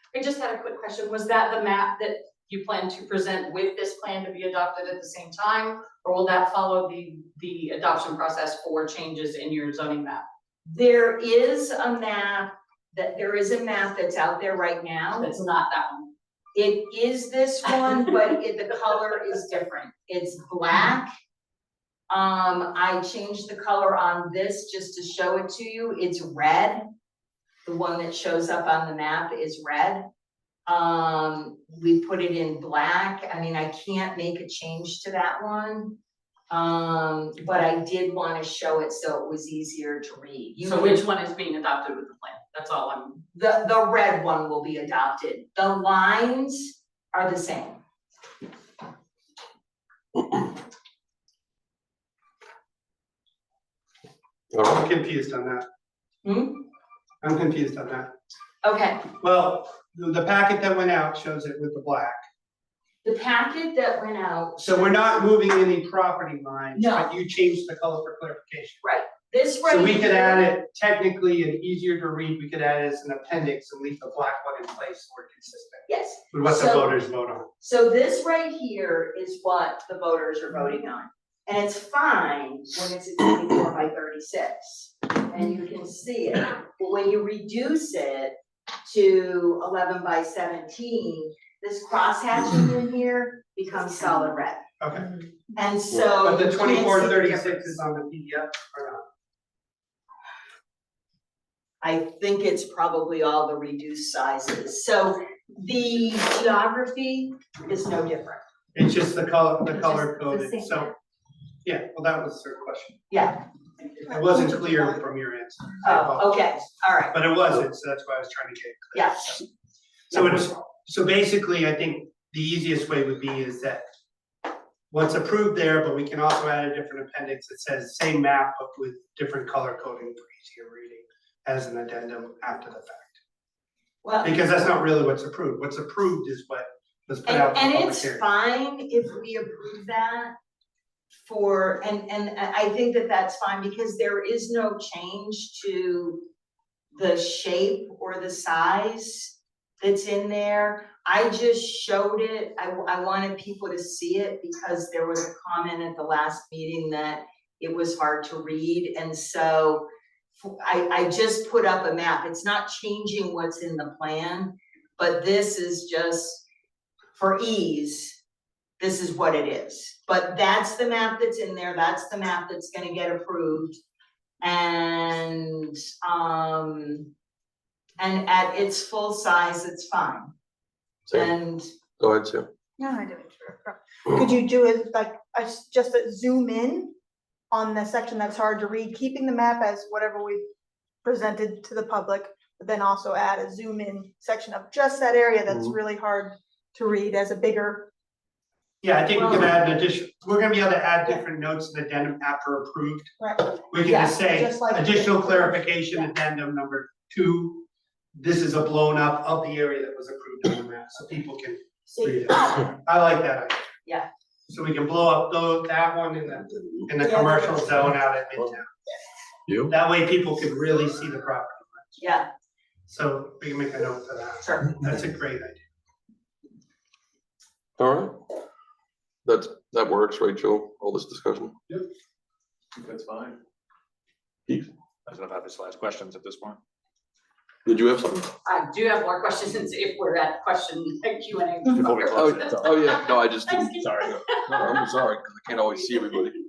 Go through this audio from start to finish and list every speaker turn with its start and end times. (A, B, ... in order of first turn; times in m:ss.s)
0:00.1-0:10.2 A
0:10.6-0:15.3 B
0:15.2-0:16.1 A
0:16.5-0:21.1 B
0:22.1-0:26.8 B
0:27.6-0:30.1 B
0:30.7-0:36.0 B
0:36.5-0:41.0 B
0:40.6-0:43.2 A
0:43.3-0:47.8 B
0:54.5-0:54.8 C
0:54.6-0:55.6 D
0:56.2-0:56.6 B
0:57.2-0:58.1 D
0:58.6-0:59.1 B
0:59.2-1:02.2 D
1:03.0-1:05.2 B
1:04.6-1:08.8 D
1:06.7-1:07.1 B
1:08.8-1:10.5 B
1:09.6-1:17.5 D
1:15.9-1:16.9 B
1:17.6-1:34.6 B
1:34.8-1:35.1 D
1:35.6-1:37.8 B
1:36.2-1:39.0 D
1:41.8-1:48.4 B
1:48.7-1:50.9 D
1:50.3-1:50.7 B
1:51.6-1:53.0 D
1:53.1-1:53.4 B
1:54.0-1:55.0 E
1:54.0-1:56.3 D
1:55.8-1:57.2 B
1:57.1-1:59.4 D
1:58.9-1:59.4 B
2:00.1-2:00.6 B
2:00.1-2:03.8 D
2:04.9-2:13.2 D
2:14.0-2:14.4 B
2:14.2-2:18.2 D
2:17.2-2:20.3 B
2:21.2-2:26.2 B
2:26.9-2:39.8 B
2:40.4-2:46.4 B
2:47.1-2:48.2 B
2:48.8-2:53.8 B
2:54.4-2:57.1 B
2:58.0-3:00.3 B
3:01.1-3:01.7 B
3:02.0-3:02.5 C
3:02.8-3:06.9 E
3:07.5-3:10.4 E
3:11.0-3:17.9 E
3:18.8-3:23.1 D
3:23.2-3:23.6 E
3:23.7-3:33.7 D
3:23.8-3:24.2 B
3:24.2-3:25.6 E
3:34.5-3:38.7 D
3:37.1-3:37.4 E
3:39.5-3:39.7 C
3:39.7-3:42.0 D
3:42.0-3:42.3 B
3:42.9-3:45.6 D
3:44.4-3:44.8 B
3:47.8-3:48.2 C
3:49.2-3:51.5 C
3:52.8-3:53.4 F
3:55.0-3:56.6 F
3:57.6-3:58.3 C
3:58.4-4:04.9 A
4:01.7-4:02.9 F
4:02.1-4:06.4 C
4:03.8-4:04.1 F